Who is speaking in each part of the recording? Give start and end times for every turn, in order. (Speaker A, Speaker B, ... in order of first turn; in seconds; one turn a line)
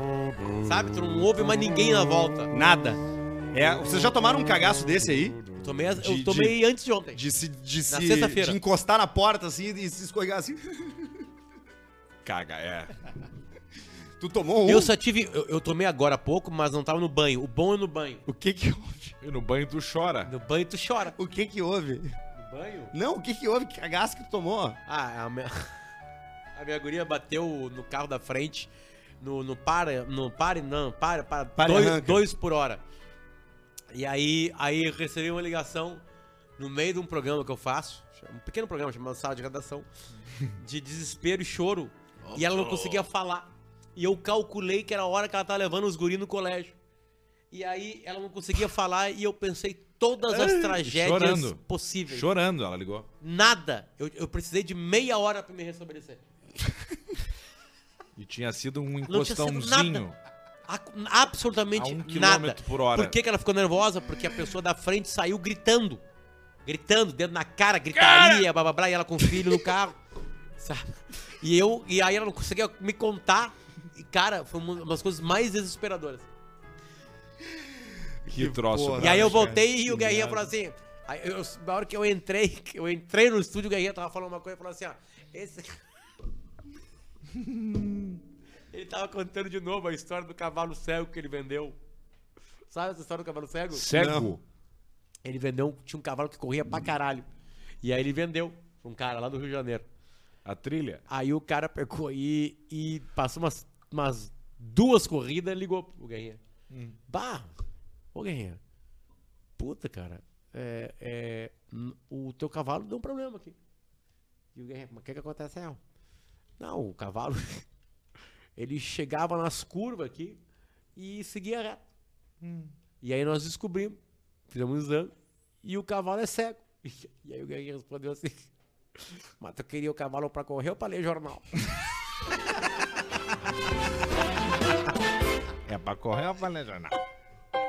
Speaker A: 0.6-2.5
Speaker B: 2.5-5.5
Speaker A: 5.6-7.2
Speaker B: 6.0-6.6
Speaker B: 7.1-11.1
Speaker A: 7.9-8.6
Speaker C: 12.2-12.9
Speaker B: 14.2-14.9
Speaker A: 14.7-18.2
Speaker B: 18.3-19.2
Speaker C: 19.2-20.3
Speaker A: 20.3-21.1
Speaker B: 21.2-22.1
Speaker A: 22.4-22.9
Speaker B: 22.9-24.8
Speaker A: 24.9-25.7
Speaker A: 26.6-28.7
Speaker A: 29.2-32.8
Speaker B: 31.6-32.3
Speaker A: 33.9-36.0
Speaker A: 36.6-39.9
Speaker A: 40.5-46.8
Speaker C: 42.2-43.1
Speaker A: 47.5-52.3
Speaker C: 50.3-53.1
Speaker A: 53.2-56.2
Speaker C: 58.2-60.2
Speaker A: 59.1-60.0
Speaker A: 60.7-66.0
Speaker C: 61.8-63.2
Speaker A: 66.7-70.0
Speaker C: 68.0-68.5
Speaker A: 70.6-76.3
Speaker B: 78.3-80.4
Speaker C: 78.3-79.6
Speaker A: 79.0-85.8
Speaker C: 87.4-88.1
Speaker A: 88.7-91.8
Speaker A: 92.7-93.9
Speaker C: 93.7-94.4
Speaker B: 93.9-94.4
Speaker A: 95.2-97.3
Speaker A: 97.8-99.9
Speaker C: 100.5-101.0
Speaker A: 101.1-106.4
Speaker C: 106.7-107.0
Speaker A: 107.1-107.5
Speaker A: 108.1-108.6
Speaker A: 109.6-113.6
Speaker A: 114.5-115.8
Speaker A: 116.6-117.7
Speaker A: 118.6-120.4
Speaker A: 121.0-121.8
Speaker C: 122.4-122.7
Speaker A: 123.0-124.0
Speaker A: 124.5-128.5
Speaker A: 129.4-131.5
Speaker C: 135.7-137.0